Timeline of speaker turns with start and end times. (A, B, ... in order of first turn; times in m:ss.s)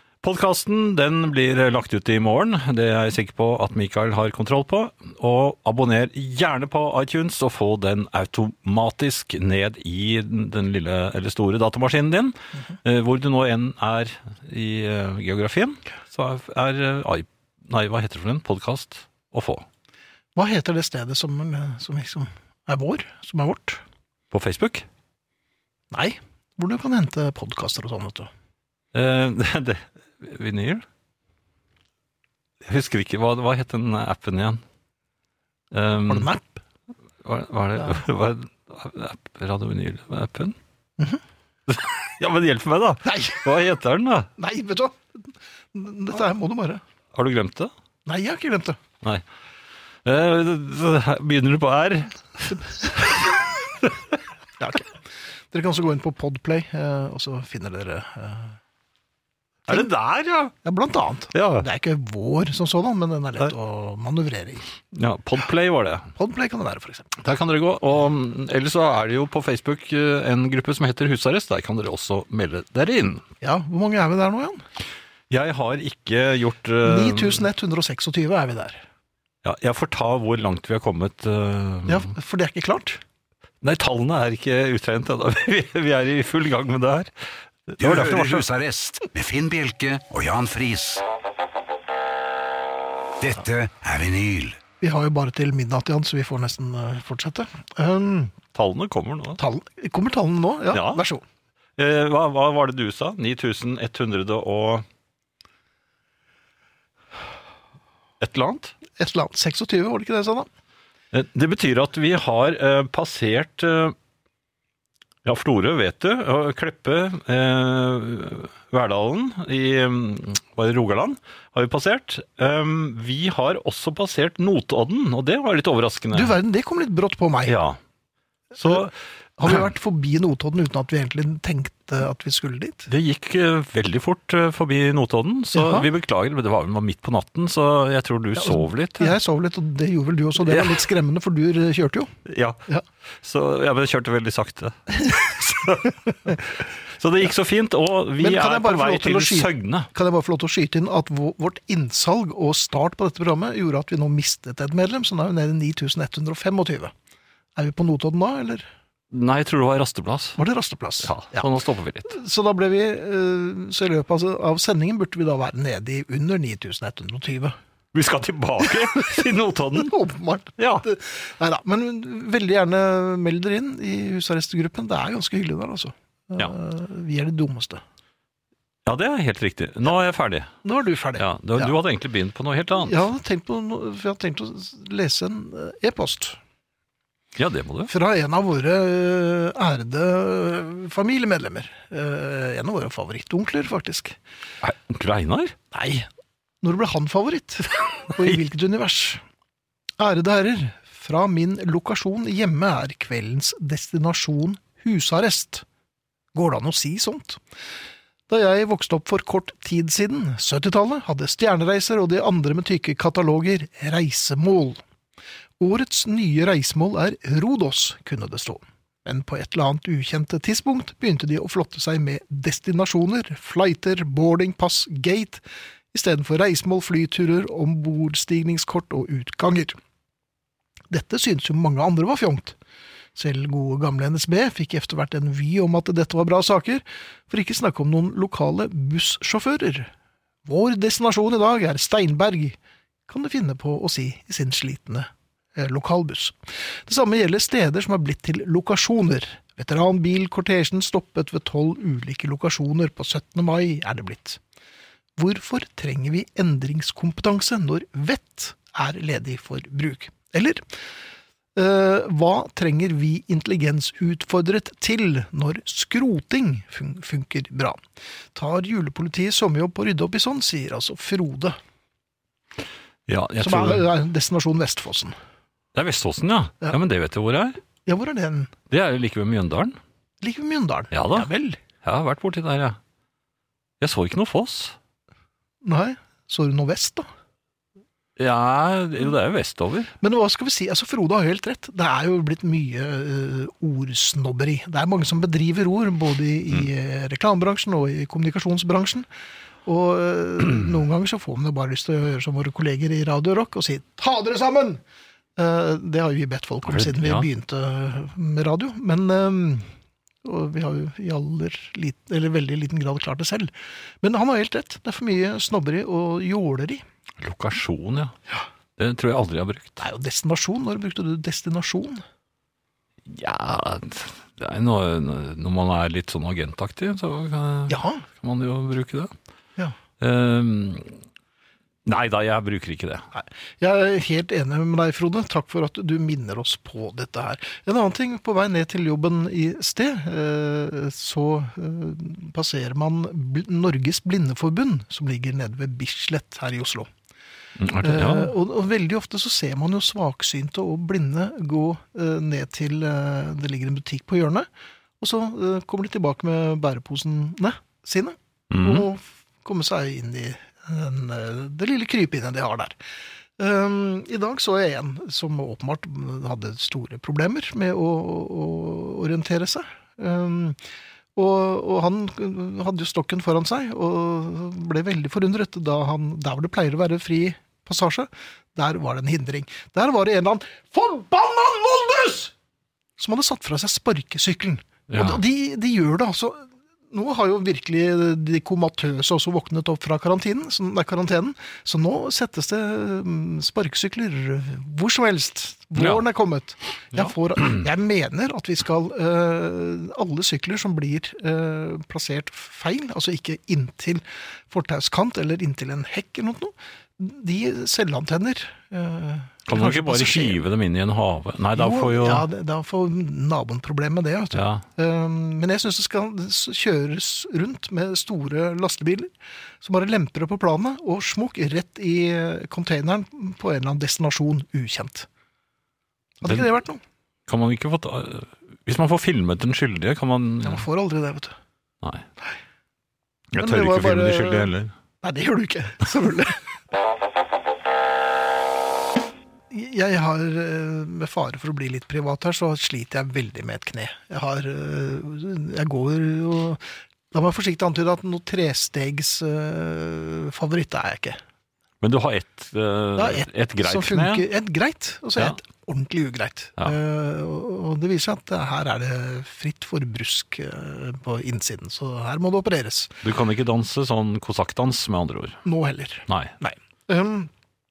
0:00.2-0:19.6 A
0:20.3-0:23.8 B
0:24.3-0:24.8 A
0:25.9-0:28.3 B
0:28.9-0:30.8 A
0:32.6-0:34.6 A
0:35.7-0:36.3 A
0:36.1-0:36.6 B
0:37.2-0:40.6 A
0:37.8-0:38.0 B
0:41.7-0:44.3 A
0:43.0-0:43.4 B
0:44.4-0:46.8 B
0:47.1-0:47.7 A
0:48.0-0:48.8 B
0:50.0-0:53.3 A
0:54.6-0:55.0 B
0:55.5-0:58.6 B
0:59.7-1:00.5 A
1:00.6-1:04.6 B
1:01.3-1:01.7 A
1:04.9-1:06.1 A
1:06.2-1:07.1 B
1:07.2-1:13.2 A
1:13.4-1:14.6 B
1:15.3-1:17.4 A
1:16.8-1:18.8 B
1:19.4-1:22.1 A
1:21.9-1:23.0 B
1:23.6-1:27.1 A
1:27.7-1:28.4 A
1:27.8-1:31.0 C
1:33.2-1:34.6 C
1:34.8-1:38.4 B
1:38.5-1:39.4 A
1:39.4-1:41.2 B
1:40.7-1:41.0 A
1:41.8-1:44.8 A
1:48.2-1:48.8 A
1:49.0-1:50.5 B
1:51.1-1:53.9 A
1:55.2-2:06.4 A
2:06.1-2:07.6 B
2:07.4-2:07.8 A
2:08.6-2:08.9 A
2:08.6-2:08.8 B
2:09.4-2:12.9 B
2:12.9-2:19.2 A
2:15.5-2:15.9 B
2:18.3-2:22.1 B
2:20.4-2:20.8 A
2:22.2-2:22.6 A
2:23.2-2:29.9 A
2:28.2-2:36.9 B
2:37.5-2:38.6 B
2:39.1-2:40.4 A
2:40.4-2:41.5 B
2:41.0-2:42.2 A
2:42.1-2:47.6 B
2:47.9-2:50.0 A
2:48.6-2:57.8 B
2:50.6-2:50.8 A
2:58.8-3:00.5 A
3:00.6-3:01.7 B
3:01.2-3:03.0 A
3:02.8-3:06.4 B
3:07.4-3:07.9 A
3:07.9-3:14.2 B
3:14.6-3:15.5 A
3:15.7-3:16.1 B
3:16.6-3:19.2 B
3:20.0-3:25.6 B
3:26.3-3:27.4 B
3:28.3-3:34.8 B
3:35.6-3:45.4 B
3:45.9-3:49.8 B
3:50.9-3:52.6 B
3:53.1-3:59.9 B
4:00.4-4:02.6 B
4:03.1-4:14.4 B
4:15.2-4:20.6 B
4:21.5-4:27.8 B
4:28.3-4:31.6 B
4:33.1-4:33.9 A
4:33.4-4:35.1 B
4:35.7-4:37.6 A
4:37.8-4:38.5 B
4:38.7-4:39.8 A
4:40.2-4:41.6 B
4:40.9-4:41.3 A
4:41.8-4:42.8 A
4:43.8-4:44.7 A
4:45.6-4:47.0 B
4:48.2-4:49.9 A
4:50.0-4:59.1 B
4:59.6-5:04.8 B
5:05.4-5:09.7 B
5:06.6-5:07.3 A
5:10.2-5:16.8 B
5:17.2-5:18.1 A
5:18.8-5:19.8 A
5:19.8-5:22.0 B
5:23.1-5:29.1 A
5:27.7-5:28.0 B
5:30.0-5:31.0 A
5:31.8-5:33.0 A
5:33.1-5:46.9 B
5:47.6-5:48.3 A
5:47.8-5:54.5 B
5:55.0-6:02.8 B
5:58.5-5:58.9 A
6:03.4-6:10.6 B
6:11.2-6:22.3 B
6:23.0-6:50.4 B
6:24.9-6:25.2 A
6:35.8-6:36.0 A
6:36.9-6:37.6 A
6:49.5-6:52.2 A
6:51.6-7:05.1 B
6:54.3-6:54.6 A
7:06.2-7:06.8 B
7:07.3-7:10.6 A
7:10.4-7:11.4 B
7:13.3-7:14.7 A
7:13.4-7:14.5 B
7:15.0-7:16.4 B
7:19.5-7:31.2 B
7:31.8-7:34.2 A
7:33.0-7:43.0 B
7:43.0-7:45.4 A
7:45.4-7:47.3 B
7:46.1-7:46.3 A